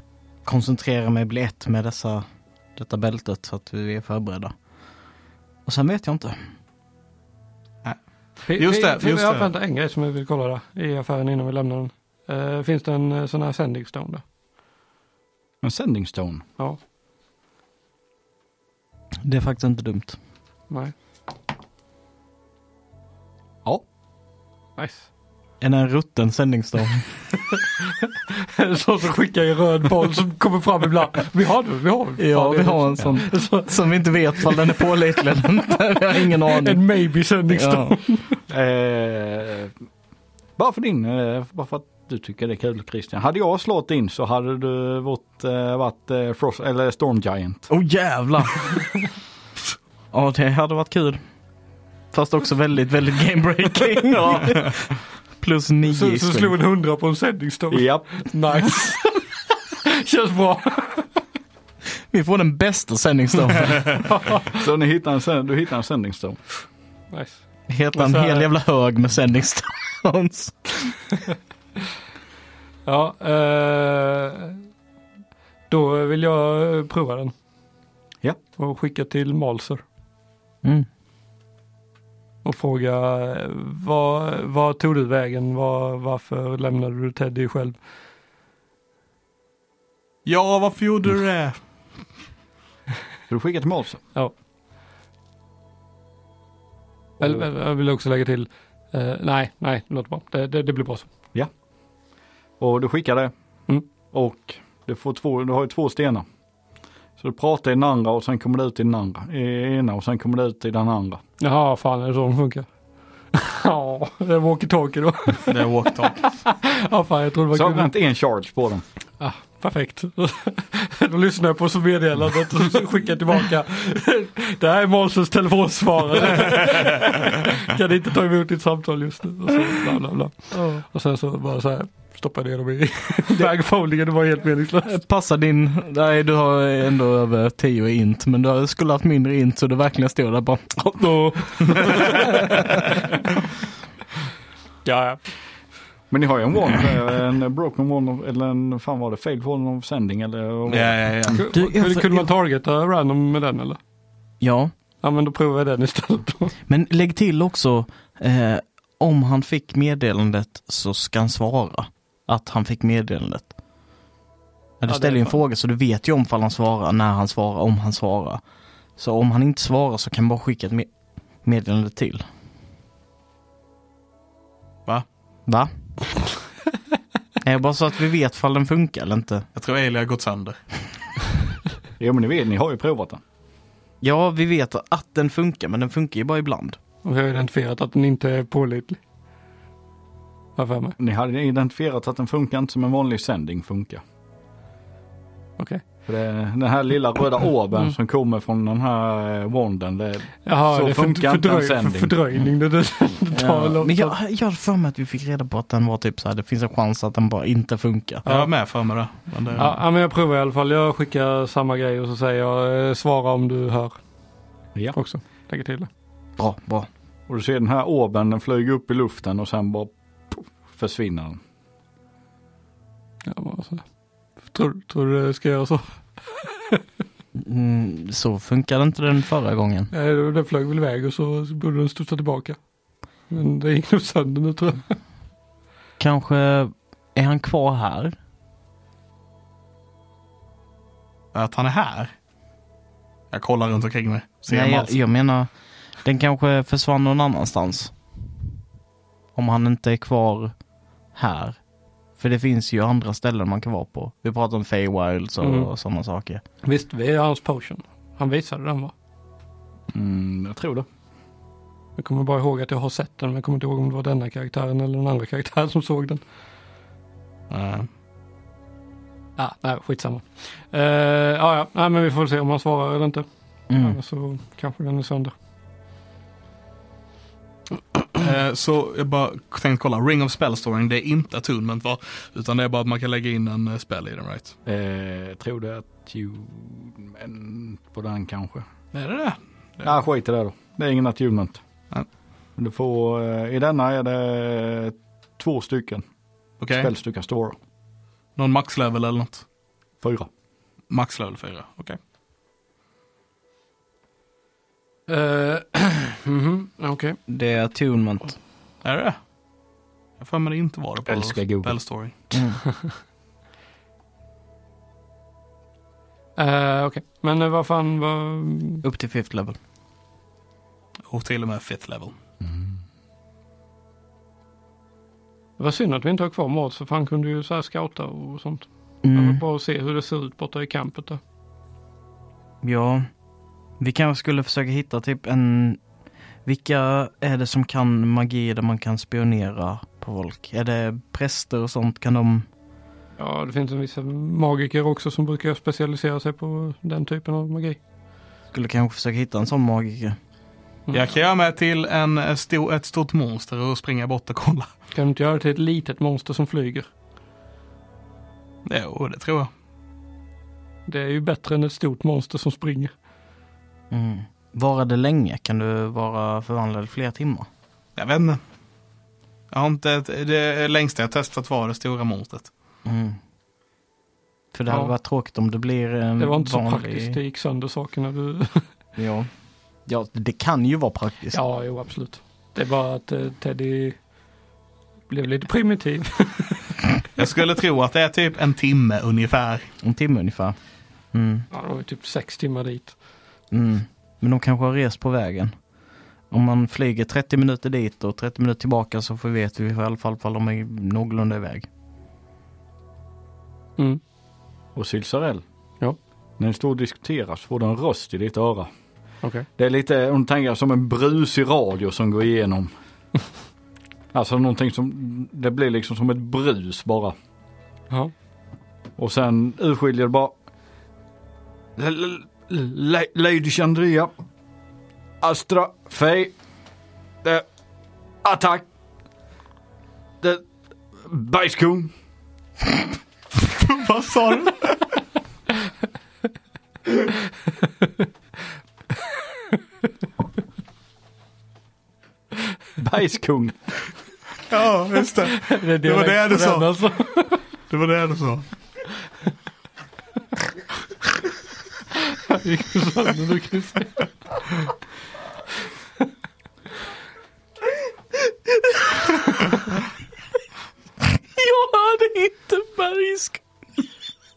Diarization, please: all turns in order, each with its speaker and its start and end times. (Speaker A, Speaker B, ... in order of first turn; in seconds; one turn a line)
Speaker A: 0.4-2.2
Speaker A: 2.8-4.5
Speaker A: 5.7-6.4
Speaker B: 7.8-9.5
Speaker C: 8.5-14.2
Speaker D: 15.6-16.4
Speaker A: 19.2-20.2
Speaker C: 24.8-25.1
Speaker A: 25.6-27.1
Speaker C: 28.4-33.8
Speaker A: 32.2-36.8
Speaker C: 36.4-38.4
Speaker A: 37.5-38.0
Speaker D: 38.5-39.7
Speaker D: 40.6-47.7
Speaker A: 47.7-48.9
Speaker A: 50.1-51.2
Speaker A: 52.1-56.5
Speaker C: 55.9-61.2
Speaker D: 57.7-58.2
Speaker A: 62.1-64.0
Speaker C: 64.0-64.7
Speaker D: 64.5-66.4
Speaker C: 67.1-68.5
Speaker A: 67.7-70.9
Speaker C: 72.8-74.6
Speaker C: 75.7-77.3
Speaker C: 78.6-79.8
Speaker C: 82.4-87.8
Speaker B: 90.2-91.6
Speaker D: 93.3-94.0
Speaker D: 97.2-97.4
Speaker C: 97.2-101.1
Speaker D: 102.6-103.3
Speaker D: 104.1-106.2
Speaker D: 107.2-111.2
Speaker C: 111.4-112.7
Speaker C: 113.3-117.9
Speaker B: 115.5-116.2
Speaker D: 117.5-118.8
Speaker C: 119.2-135.0
Speaker A: 134.8-142.8
Speaker C: 144.8-145.2
Speaker D: 146.1-151.3
Speaker B: 150.7-151.4
Speaker C: 151.3-153.8
Speaker A: 151.5-152.3
Speaker A: 154.4-154.7
Speaker C: 155.0-156.6
Speaker A: 156.7-163.5
Speaker A: 164.8-168.4
Speaker C: 164.9-165.4
Speaker A: 168.9-170.9
Speaker A: 171.4-172.2
Speaker A: 175.4-175.7
Speaker A: 177.4-179.4
Speaker B: 179.5-180.6
Speaker D: 182.0-183.2
Speaker A: 184.0-186.8
Speaker C: 187.0-189.0
Speaker C: 190.6-190.9
Speaker D: 191.0-194.0
Speaker C: 195.6-195.8
Speaker D: 196.1-202.2
Speaker C: 200.4-204.1
Speaker A: 203.3-208.2
Speaker C: 208.2-208.5
Speaker B: 208.2-209.8
Speaker C: 209.6-213.9
Speaker C: 214.9-215.9
Speaker A: 216.4-216.9
Speaker D: 217.3-221.4
Speaker C: 223.2-223.8
Speaker C: 224.4-226.8
Speaker A: 227.4-229.9
Speaker C: 229.9-232.6
Speaker C: 233.3-234.9
Speaker A: 236.0-238.1
Speaker B: 241.3-242.1
Speaker B: 243.3-245.0
Speaker A: 244.5-245.5
Speaker A: 246.0-247.9
Speaker A: 249.3-250.5
Speaker A: 251.1-251.6
Speaker A: 252.2-256.4
Speaker C: 255.4-255.7
Speaker C: 256.6-258.9
Speaker D: 259.9-260.9
Speaker C: 262.0-266.2
Speaker B: 267.5-267.9
Speaker C: 269.4-275.3
Speaker A: 273.7-274.0
Speaker B: 278.1-284.5
Speaker D: 284.6-288.6
Speaker B: 288.9-289.9
Speaker D: 289.8-291.6
Speaker D: 292.6-296.0
Speaker B: 296.6-296.9
Speaker D: 296.7-297.6
Speaker B: 298.4-299.4
Speaker D: 300.0-300.3
Speaker B: 300.9-302.0
Speaker C: 305.1-307.2
Speaker A: 307.3-308.4
Speaker B: 308.8-309.2
Speaker B: 310.2-312.1
Speaker D: 311.1-311.8
Speaker A: 312.3-312.6
Speaker C: 316.4-318.8
Speaker A: 318.8-319.6
Speaker B: 321.1-322.1
Speaker C: 325.6-331.2
Speaker A: 329.0-329.4
Speaker A: 332.6-333.1
Speaker A: 333.8-335.8
Speaker A: 336.4-342.4
Speaker C: 343.2-347.8
Speaker A: 348.5-350.2
Speaker B: 350.9-354.7
Speaker C: 354.9-356.9
Speaker B: 358.6-359.5
Speaker C: 360.9-362.9
Speaker A: 363.9-367.5
Speaker B: 368.0-368.4
Speaker B: 369.5-372.5
Speaker A: 372.8-373.2
Speaker A: 374.5-377.2
Speaker C: 374.7-374.9
Speaker C: 376.2-378.6
Speaker A: 379.0-379.3
Speaker A: 379.9-381.4
Speaker C: 381.3-384.0
Speaker C: 385.1-386.7
Speaker B: 387.1-389.7
Speaker A: 389.8-390.6
Speaker A: 391.1-391.4
Speaker C: 391.5-392.9
Speaker A: 393.5-395.5
Speaker A: 396.3-401.7
Speaker D: 404.7-405.4
Speaker D: 406.4-408.7
Speaker D: 409.6-412.7
Speaker D: 414.1-417.1
Speaker D: 419.0-420.3
Speaker D: 421.8-424.1
Speaker D: 425.2-426.3
Speaker D: 428.2-428.7
Speaker D: 430.9-431.9
Speaker B: 433.4-434.8
Speaker D: 442.8-443.6
Speaker B: 444.5-446.7
Speaker C: 445.4-447.4
Speaker B: 447.7-448.5
Speaker C: 452.3-454.1
Speaker A: 461.0-463.4